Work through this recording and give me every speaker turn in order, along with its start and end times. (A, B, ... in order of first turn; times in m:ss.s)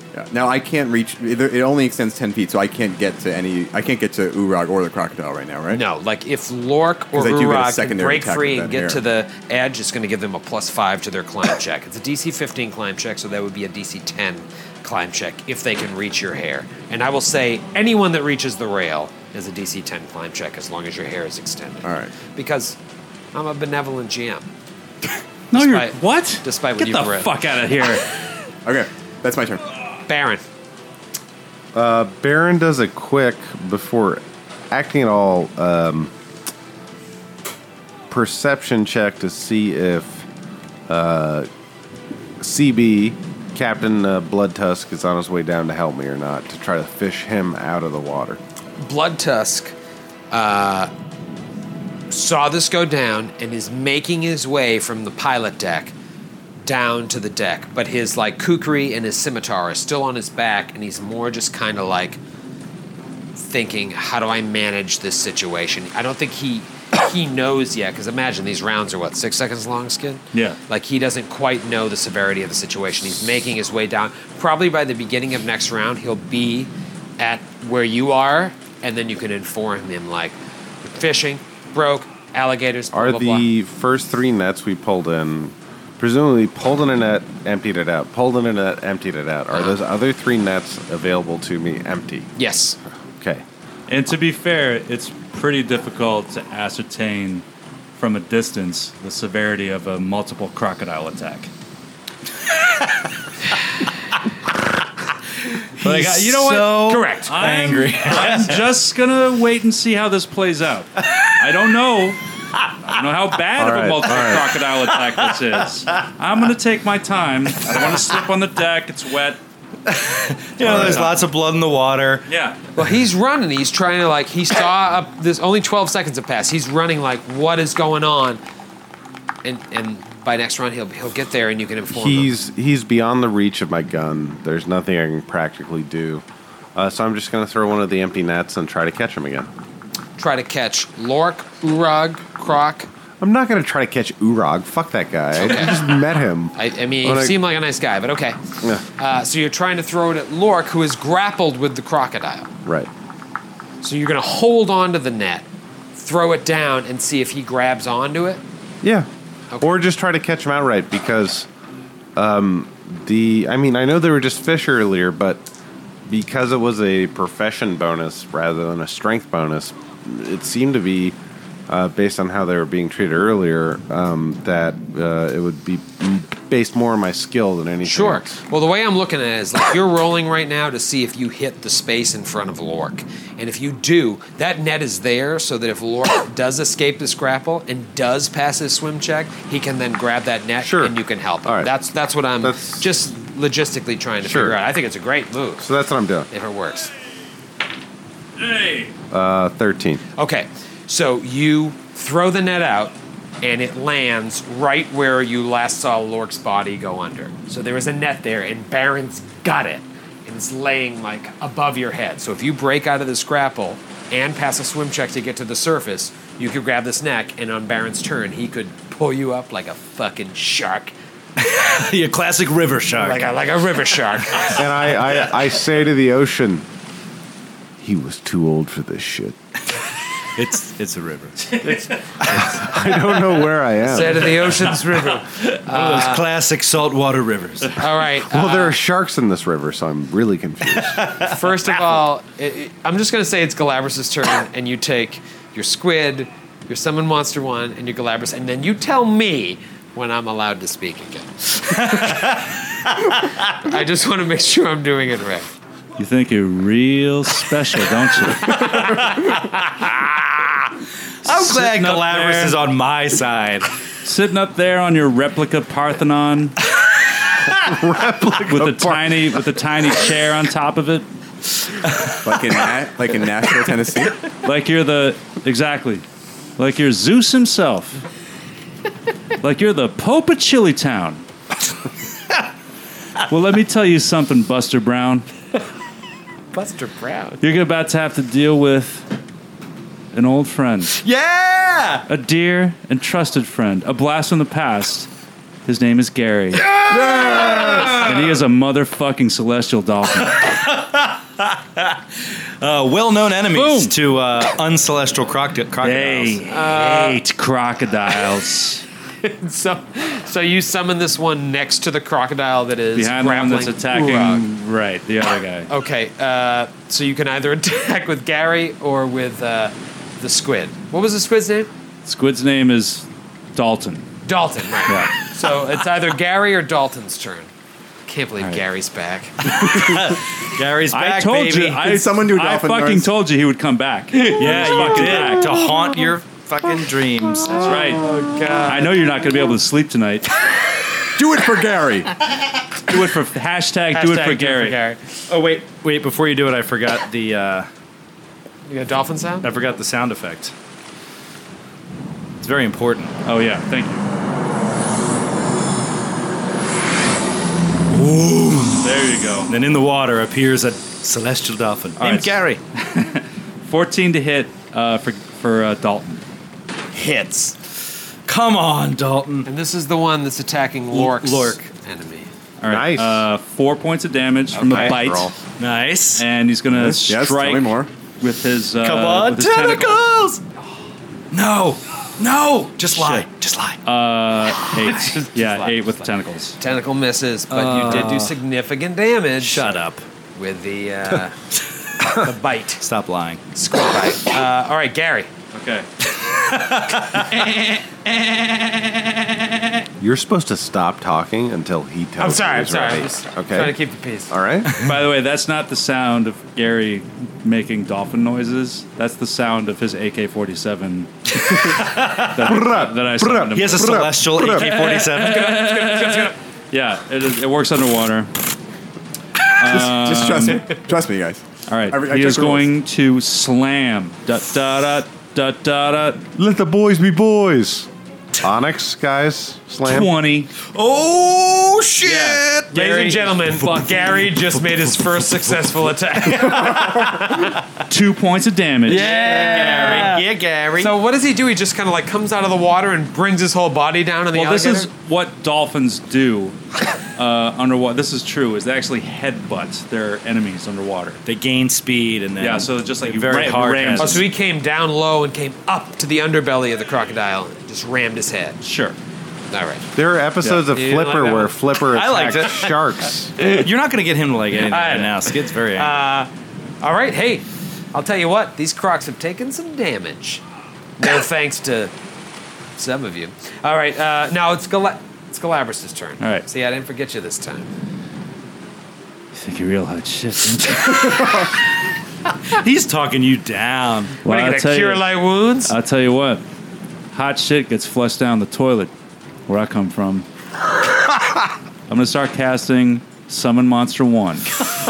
0:00.1-0:05.8 A
0:05.7-0:22.8 B
0:07.1-0:09.0 A
0:21.8-0:22.1 A
0:23.3-0:24.5 B
0:25.5-0:28.1 C
0:25.5-0:27.4 B
0:28.6-0:29.6 A
0:30.1-0:30.4 B
0:31.7-0:36.1 D
0:38.1-0:40.2 D
0:40.9-0:41.5 D
0:42.4-0:48.4 D
0:48.8-0:49.7 B
0:50.3-0:50.9 B
0:52.1-0:55.9 B
0:56.6-1:02.2 B
1:03.4-1:23.5 B
1:10.3-1:10.6 C
1:22.9-1:32.3 D
1:32.4-1:32.8 B
1:33.1-1:33.4 D
1:33.9-1:37.4 C
1:38.0-1:41.5 C
1:45.8-1:47.5 B
1:45.8-1:48.6 E
1:47.3-1:52.2 C
1:52.9-1:59.4 C
1:53.6-1:54.5 D
1:59.9-2:02.3 E
2:00.6-2:01.1 D
2:00.6-2:01.2 C
2:02.3-2:02.6 C
2:02.8-2:08.4 B
2:09.4-2:12.3 B
2:11.9-2:16.2 D
2:16.8-2:19.5 D
2:20.2-2:22.9 B
2:23.2-2:27.4 D
2:25.4-2:25.8 B
2:26.6-2:28.4 B
2:29.0-2:32.5 B
2:32.6-2:32.9 D
2:33.8-2:38.4 B
2:38.8-2:39.1 D
2:39.5-2:39.8 B
2:39.6-2:41.5 D
2:42.2-2:45.5 D
2:46.1-2:51.2 D
2:51.7-2:58.3 D
2:57.8-3:15.7 B
3:10.6-3:11.7 D
3:12.4-3:12.9 D
3:14.2-3:14.6 D
3:15.6-3:16.3 D
3:16.3-3:16.9 B
3:18.4-3:18.9 C
3:19.1-3:20.0 D
3:20.2-3:40.9 B
3:41.4-3:43.4 E
3:43.0-3:44.6 B
3:44.5-3:46.7 D
3:47.8-3:49.4 D
3:50.4-3:52.5 E
3:51.6-3:52.0 C
3:52.3-3:54.3 D
3:53.8-3:56.2 B
3:55.4-3:57.9 E
3:57.8-3:58.8 B
3:58.3-4:01.0 D
4:00.9-4:02.0 E
4:01.3-4:12.3 B
4:11.7-4:13.4 E
4:13.6-4:15.5 B
4:16.0-4:18.8 C
4:18.5-4:19.8 E
4:21.2-4:23.7 E
4:21.3-4:22.6 C
4:24.0-4:26.6 C
4:27.5-4:29.3 D
4:28.4-4:31.1 C
4:31.8-4:32.6 E
4:32.2-4:34.2 A
4:34.4-4:36.0 C
4:36.6-4:38.0 C
4:39.4-4:41.2 C
4:43.3-4:45.2 C
4:46.5-4:47.4 B
4:47.4-4:49.1 C
4:50.1-4:51.0 C
4:50.9-4:52.0 E
4:52.1-4:55.1 C
4:55.7-4:56.7 C
4:56.6-4:58.3 E
4:57.5-5:00.4 C
5:00.3-5:02.0 E
5:02.6-5:06.5 E
5:03.5-5:04.0 C
5:05.8-5:08.8 C
5:06.5-5:07.2 B
5:09.2-5:14.4 B
5:13.0-5:15.7 C
5:15.7-5:21.7 B
5:22.0-5:23.0 C
5:23.6-5:24.1 C
5:24.2-5:27.5 B
5:24.9-5:25.1 C
5:28.1-5:29.4 B
5:29.4-5:32.0 E
5:30.9-5:35.7 C
5:31.9-5:33.1 A
5:34.2-5:37.8 E
5:37.5-5:38.9 B
5:37.6-5:38.1 C
5:38.7-5:40.3 C
5:41.2-5:42.1 A
5:42.9-5:44.8 C
5:43.9-5:45.0 B
5:45.3-5:47.7 E
5:48.7-5:49.5 B
5:49.4-5:50.5 E
5:52.4-5:53.2 E
5:53.2-5:54.0 C
5:57.9-5:58.9 E
5:58.8-5:59.5 C
5:59.5-6:02.6 E
6:02.0-6:06.2 C
6:06.9-6:07.5 B
6:08.3-6:09.5 E
6:09.5-6:12.3 B
6:10.9-6:11.7 E
6:12.6-6:15.3 C
6:12.6-6:13.2 D
6:14.6-6:15.3 D
6:14.6-6:14.9 B
6:15.6-6:16.2 E
6:16.2-6:20.0 C
6:16.7-6:17.9 A
6:18.8-6:20.4 E
6:21.3-6:23.8 E
6:23.8-6:26.6 C
6:24.9-6:29.8 B
6:27.5-6:28.3 E
6:27.6-6:28.2 C
6:29.4-6:30.0 E
6:30.4-6:31.3 B
6:32.2-6:32.8 B
6:32.8-6:33.4 E
6:33.6-6:35.3 B
6:35.5-6:35.9 C
6:36.3-6:37.8 E
6:40.0-6:43.8 D
6:42.2-6:44.3 B
6:44.3-6:44.7 D
6:44.8-6:58.3 C
6:51.5-6:52.6 E
6:52.4-6:55.0 D
6:53.5-6:55.6 E
6:55.1-6:56.3 B
6:59.6-7:00.7 C
6:59.6-7:02.7 A
7:01.7-7:06.2 C
7:06.4-7:07.9 D
7:08.4-7:10.1 D
7:09.8-7:10.5 C
7:10.6-7:15.6 E
7:12.0-7:12.4 C
7:12.7-7:17.5 B
7:16.2-7:17.4 E
7:17.9-7:20.2 C
7:18.9-7:20.9 E
7:19.2-7:20.1 B
7:20.8-7:24.9 B
7:24.3-7:26.6 C
7:27.2-7:31.2 C
7:31.3-7:34.3 E
7:32.4-7:34.3 C
7:34.0-7:38.6 B
7:38.6-7:39.0 C
7:39.5-7:39.9 B
7:40.0-7:43.3 D
7:40.7-7:41.6 B
7:41.9-7:42.9 E
7:43.4-7:45.9 E
7:44.7-7:46.3 B
7:46.8-7:50.4 B
7:51.0-7:51.9 B
7:52.8-7:57.7 B
7:56.2-7:56.5 C
7:59.3-8:01.4 C
8:02.5-8:04.2 E
8:04.2-8:05.7 B
8:04.2-8:05.1 C
8:05.6-8:06.4 C
8:07.1-8:08.9 C
8:09.5-8:10.3 C
8:11.9-8:14.5 C